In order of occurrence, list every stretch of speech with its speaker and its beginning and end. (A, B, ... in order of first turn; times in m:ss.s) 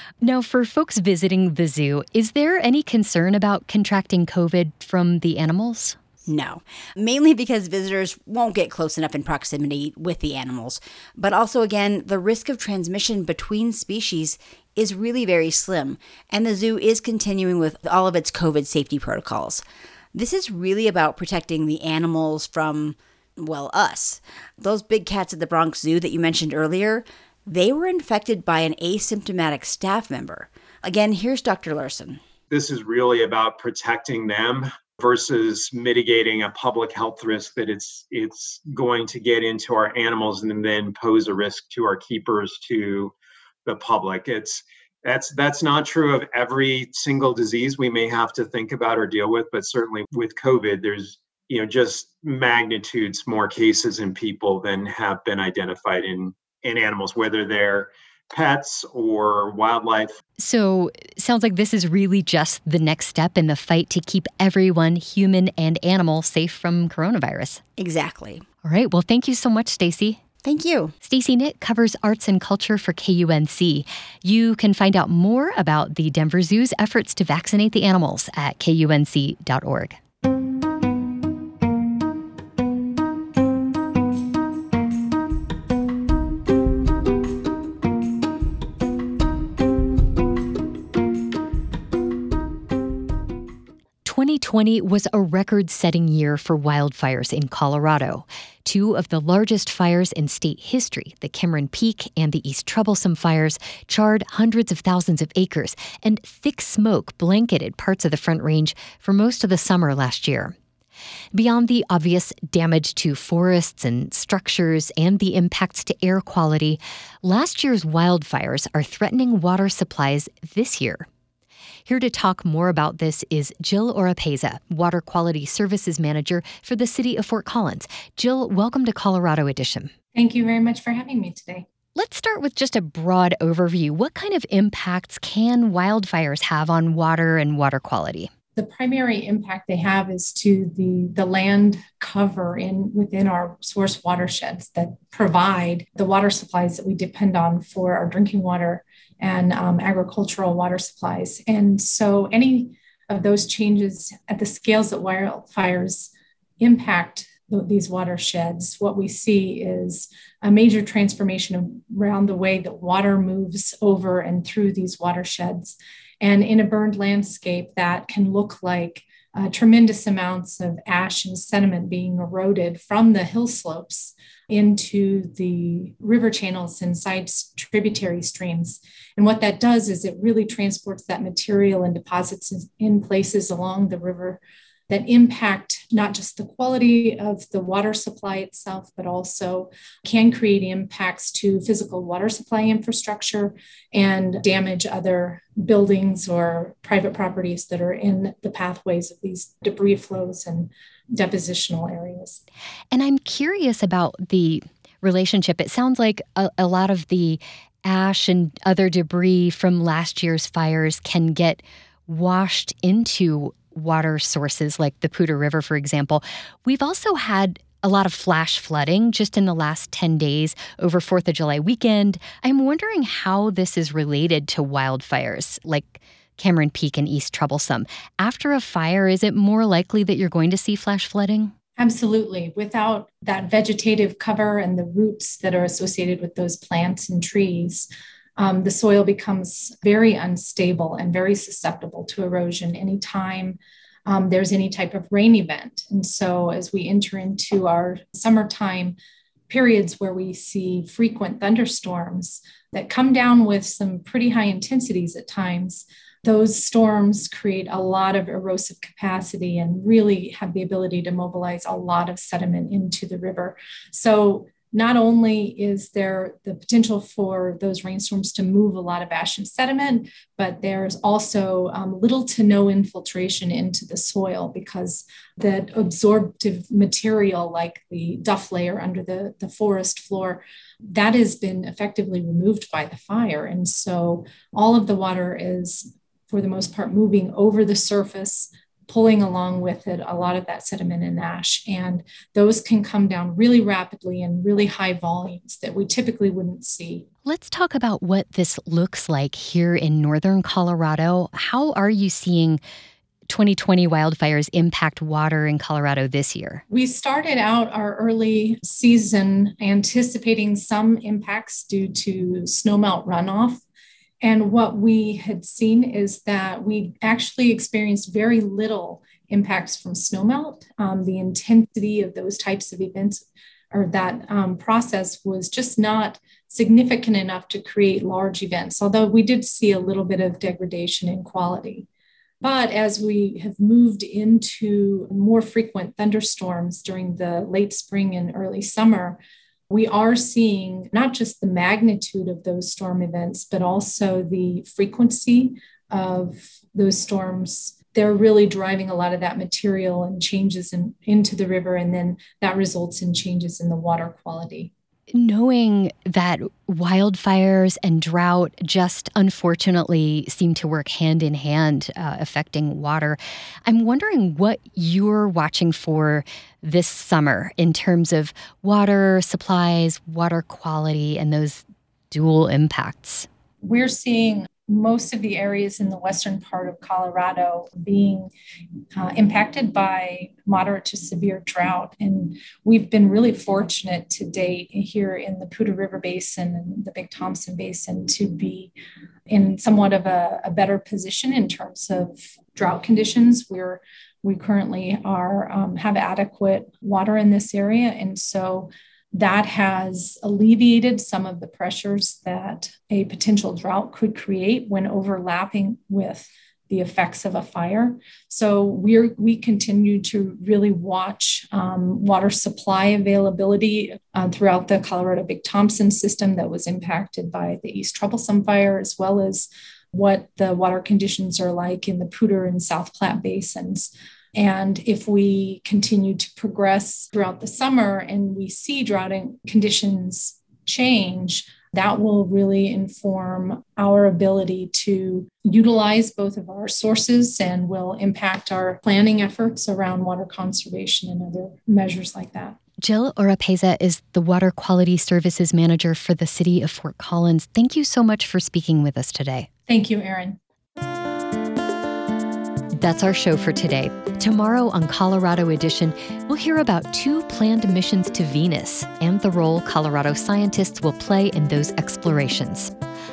0:00.2-0:06.0 A
0:06.2-0:19.6 B
0:20.1-0:32.2 B
0:32.5-0:43.1 C
0:43.6-1:00.2 C
1:00.4-1:07.6 A
1:07.8-1:08.4 B
1:08.6-1:10.2 A
1:10.4-1:10.9 B
1:11.0-1:20.0 A
1:34.0-1:50.5 A
1:51.3-2:01.1 A
2:01.9-2:09.9 A
2:10.1-2:11.6 D
2:12.0-2:18.3 A
2:18.6-3:22.4 D
3:22.9-3:51.5 A
3:51.8-4:09.0 D
4:09.5-4:57.0 D
4:57.2-5:02.6 A
5:03.3-5:06.6 A
5:06.7-5:13.6 D
5:14.2-5:31.9 D
5:32.4-5:54.7 D
5:55.1-6:13.3 A
6:13.6-6:18.3 D
6:18.9-6:28.7 D
6:29.3-7:22.6 D
7:22.8-7:29.5 A
7:29.7-7:30.4 D
7:32.8-7:42.7 A